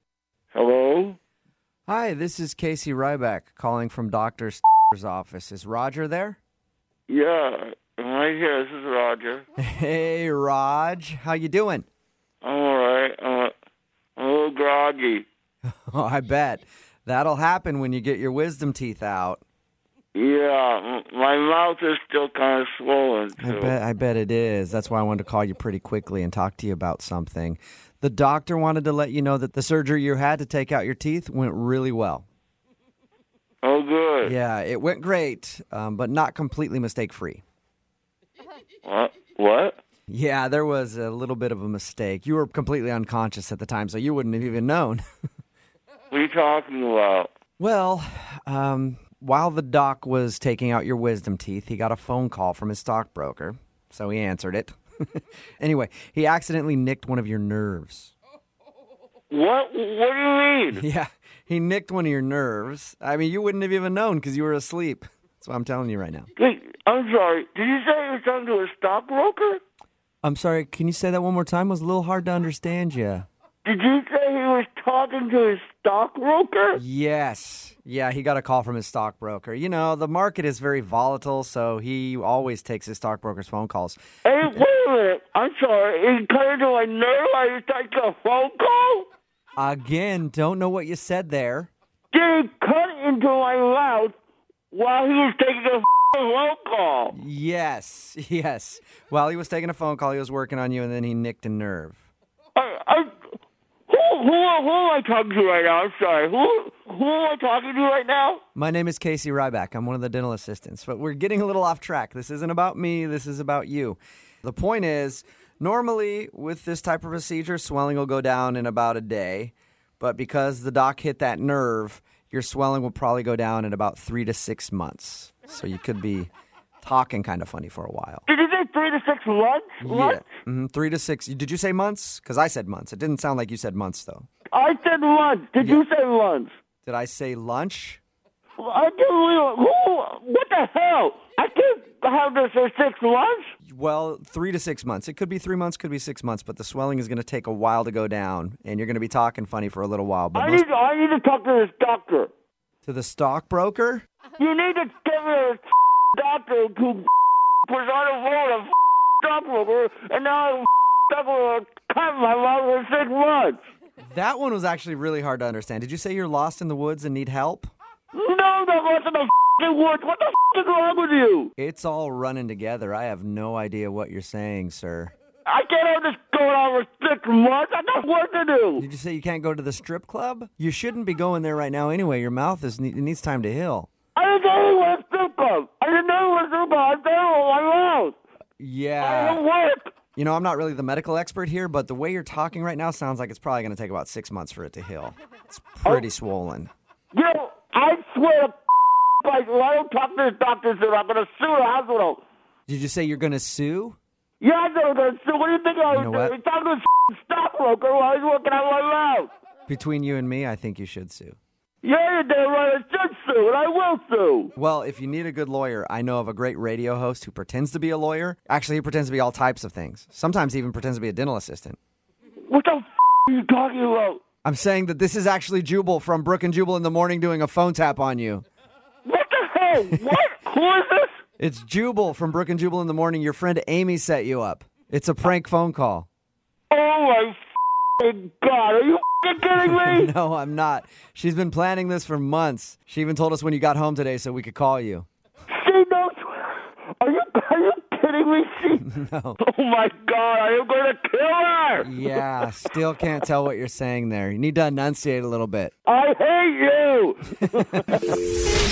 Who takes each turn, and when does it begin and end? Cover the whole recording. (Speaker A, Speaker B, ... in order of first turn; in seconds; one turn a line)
Speaker A: 0.5-1.2
Speaker B: 1.9-6.4
Speaker A: 7.1-9.4
Speaker B: 9.6-11.8
Speaker A: 12.4-13.5
Speaker A: 14.2-15.2
Speaker B: 15.7-19.4
Speaker A: 20.1-23.8
Speaker B: 23.4-32.2
Speaker A: 33.6-34.3
Speaker B: 34.2-37.4
Speaker A: 38.8-39.8
Speaker B: 40.1-45.0
Speaker A: 46.1-47.3
Speaker B: 47.6-58.1
Speaker A: 59.3-60.8
Speaker B: 60.7-66.3
Speaker A: 66.4-69.6
Speaker B: 70.2-73.3
Speaker A: 73.6-76.8
Speaker B: 76.8-84.6
Speaker A: 84.2-89.1
Speaker B: 89.6-91.7
Speaker A: 92.1-94.1
Speaker A: 94.7-97.1
Speaker B: 97.1-102.0
Speaker A: 102.5-103.2
Speaker A: 103.9-108.4
Speaker B: 108.5-126.3
Speaker B: 126.8-128.2
Speaker A: 128.3-130.2
Speaker B: 129.8-134.3
Speaker A: 134.5-136.5
Speaker B: 135.6-135.8
Speaker B: 136.8-138.0
Speaker A: 138.6-143.5
Speaker B: 143.6-150.6
Speaker A: 150.3-152.3
Speaker B: 152.8-154.0
Speaker A: 154.4-157.1
Speaker A: 157.6-163.6
Speaker B: 164.0-167.7
Speaker A: 168.1-171.5
Speaker B: 171.6-175.1
Speaker A: 175.4-178.8
Speaker B: 178.8-183.9
Speaker A: 184.1-188.2
Speaker B: 188.6-189.4
Speaker A: 189.0-189.9
Speaker B: 190.2-196.7
Speaker A: 197.1-198.6
Speaker A: 199.2-202.2
Speaker B: 202.7-204.0
Speaker A: 204.4-209.3
Speaker B: 205.9-206.3
Speaker B: 209.7-211.4
Speaker A: 211.8-214.5
Speaker B: 214.6-221.8
Speaker A: 222.5-224.2
Speaker B: 224.4-228.4
Speaker A: 229.1-231.1
Speaker B: 231.4-236.1
Speaker A: 236.7-237.4
Speaker A: 238.0-240.1
Speaker B: 239.5-245.1
Speaker A: 245.5-248.9
Speaker B: 248.8-249.4
Speaker A: 249.4-252.2
Speaker B: 251.8-255.7
Speaker A: 255.8-258.2
Speaker B: 257.4-257.8